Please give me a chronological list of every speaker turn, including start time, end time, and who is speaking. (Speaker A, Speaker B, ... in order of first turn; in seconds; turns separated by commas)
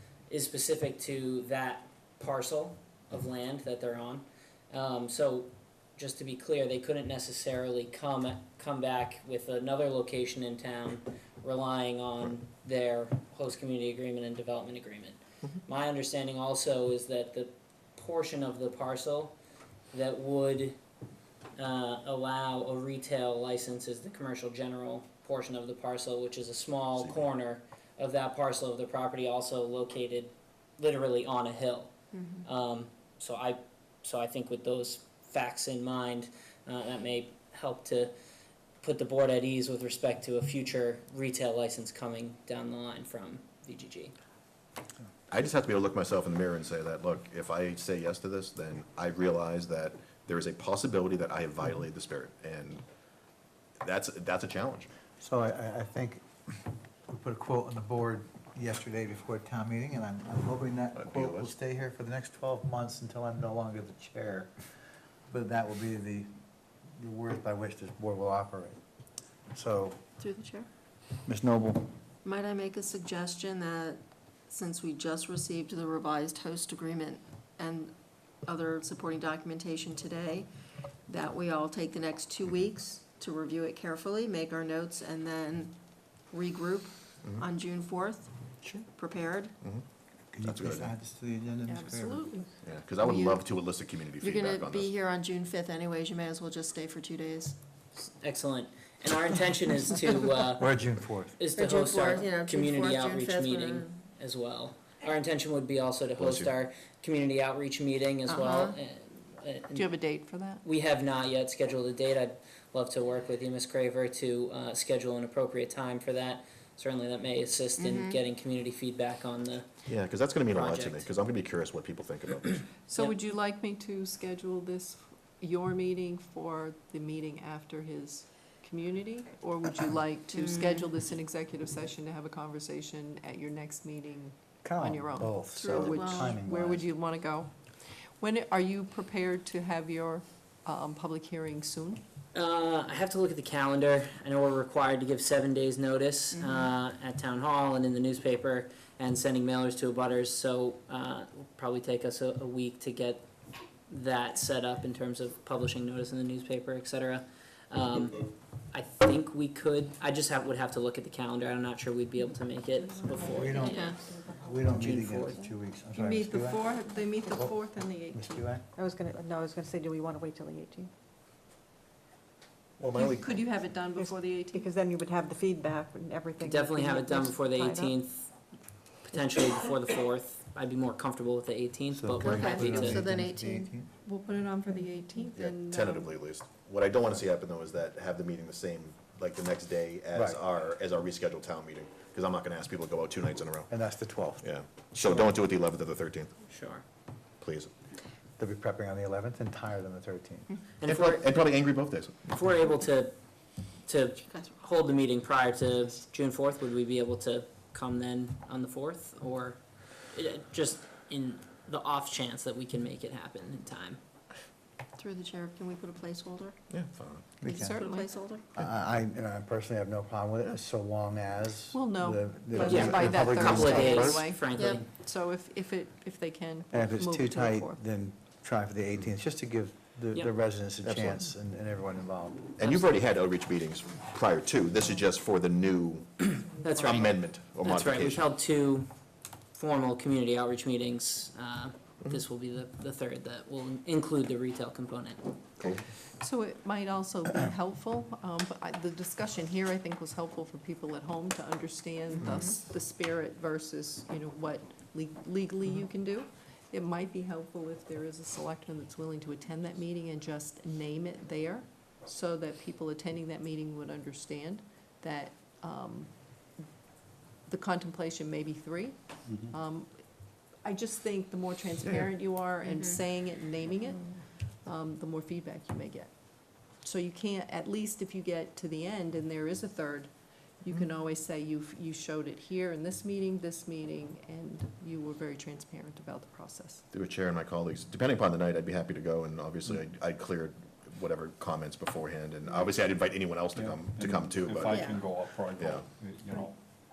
Speaker A: 0.3-19.3, Speaker A: 19.9-20.8, Speaker A: 21.6-31.9, Speaker B: 32.1-32.4, Speaker A: 32.4-38.1, Speaker A: 38.8-44.1, Speaker C: 45.3-52.8, Speaker C: 53.8-54.9, Speaker D: 55.2-64.5, Speaker C: 61.0-61.5, Speaker D: 65.3-66.4, Speaker D: 66.9-68.8, Speaker D: 69.5-70.0, Speaker B: 70.2-70.7, Speaker D: 71.2-71.9, Speaker B: 72.2-80.5, Speaker B: 81.1-89.5, Speaker C: 88.6-88.9, Speaker D: 90.3-92.4, Speaker C: 90.4-90.9, Speaker E: 91.7-92.5, Speaker C: 92.6-95.0, Speaker B: 93.0-93.5, Speaker B: 94.2-97.6, Speaker A: 98.0-100.7, Speaker D: 100.5-101.3, Speaker A: 101.4-109.9, Speaker B: 101.5-103.9, Speaker C: 106.2-106.5, Speaker B: 108.3-108.8, Speaker E: 109.8-110.6, Speaker A: 110.6-119.7, Speaker B: 117.8-118.2, Speaker C: 119.9-122.6, Speaker A: 120.5-121.1, Speaker E: 122.9-142.0, Speaker B: 130.3-130.9, Speaker D: 134.6-136.9, Speaker B: 135.6-136.4, Speaker A: 142.3-153.2, Speaker A: 153.9-165.4, Speaker F: 163.0-164.6, Speaker D: 163.3-166.7, Speaker B: 163.7-164.0, Speaker E: 165.9-168.4, Speaker D: 167.3-168.7, Speaker F: 168.8-170.9, Speaker E: 172.9-174.7, Speaker F: 174.0-178.0, Speaker A: 176.4-178.3, Speaker A: 179.0-183.0, Speaker D: 181.9-183.9, Speaker B: 182.2-183.7, Speaker E: 184.0-186.1, Speaker C: 185.3-193.7, Speaker D: 190.1-190.4, Speaker D: 193.7-195.3, Speaker C: 194.4-196.3, Speaker A: 196.5-196.8, Speaker C: 197.4-197.7, Speaker D: 198.4-200.5, Speaker A: 200.8-201.3, Speaker C: 200.9-202.2, Speaker A: 202.3-203.1, Speaker A: 203.9-209.6, Speaker B: 204.2-204.5, Speaker A: 210.1-214.0, Speaker B: 215.0-216.6, Speaker C: 216.7-217.4, Speaker D: 217.4-217.8, Speaker E: 217.4-218.1, Speaker B: 217.6-218.5, Speaker D: 218.5-224.1, Speaker E: 221.7-227.8, Speaker A: 222.5-224.9, Speaker C: 223.6-224.2, Speaker B: 224.5-224.8, Speaker D: 226.7-232.5, Speaker C: 230.8-231.3, Speaker C: 232.6-238.3, Speaker A: 236.6-238.9, Speaker A: 239.5-245.2, Speaker E: 246.2-266.6, Speaker B: 252.2-252.6, Speaker E: 267.5-286.8, Speaker G: 269.3-269.5, Speaker B: 272.6-273.0, Speaker C: 286.9-294.9, Speaker G: 293.5-296.6, Speaker B: 294.7-295.1, Speaker C: 295.6-295.9